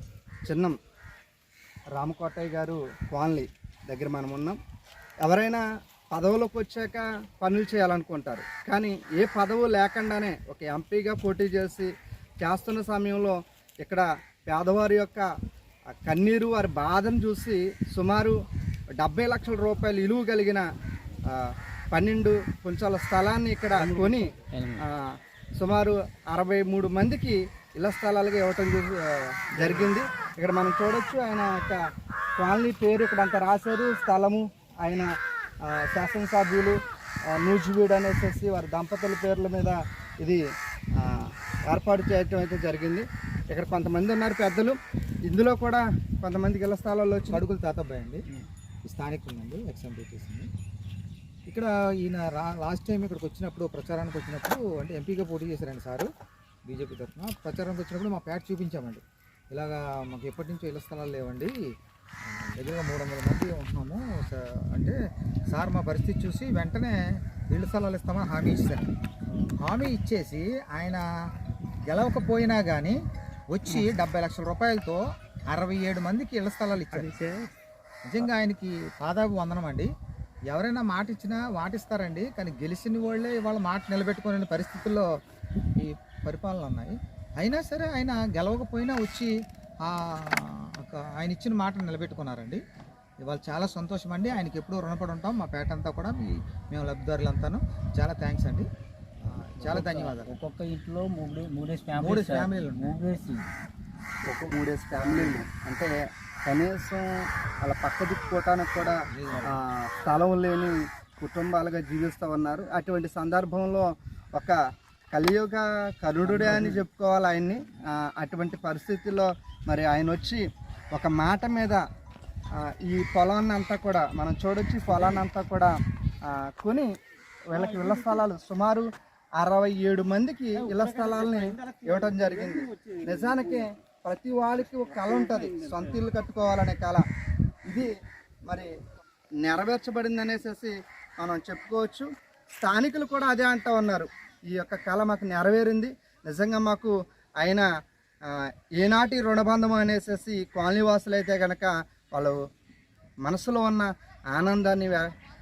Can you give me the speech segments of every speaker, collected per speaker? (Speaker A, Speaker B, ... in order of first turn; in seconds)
Speaker A: 0.5-0.7, 1.9-4.6, 5.2-11.9, 12.4-15.3, 15.9-18.4, 19.0-20.6, 21.3-25.0, 25.6-31.8, 32.4-35.1, 35.6-36.8, 37.4-40.4, 41.0-47.4, 104.3-105.9, 106.4-107.0, 107.6-114.5, 115.1-121.8, 122.6-125.7, 126.2-126.9, 127.5-128.9, 129.4-137.0, 138.4-138.7, 139.4-147.7, 148.3-152.4, 153.2-155.1
Speaker B: 23.8-24.8, 29.6-29.9, 76.9-77.5, 99.6-103.4, 104.3-105.4, 116.2-116.8, 127.5-128.2, 130.6-133.7, 134.7-136.0
Speaker C: 47.3-48.2, 48.9-50.5, 51.5-56.1, 56.7-61.5, 62.3-64.9, 65.5-67.0, 67.5-68.9, 69.6-71.0, 71.9-72.9, 73.5-77.1, 78.0-79.9, 80.5-85.0, 85.8-89.3, 89.8-92.6, 93.2-98.7, 99.3-100.3, 102.0-102.9, 108.9-109.5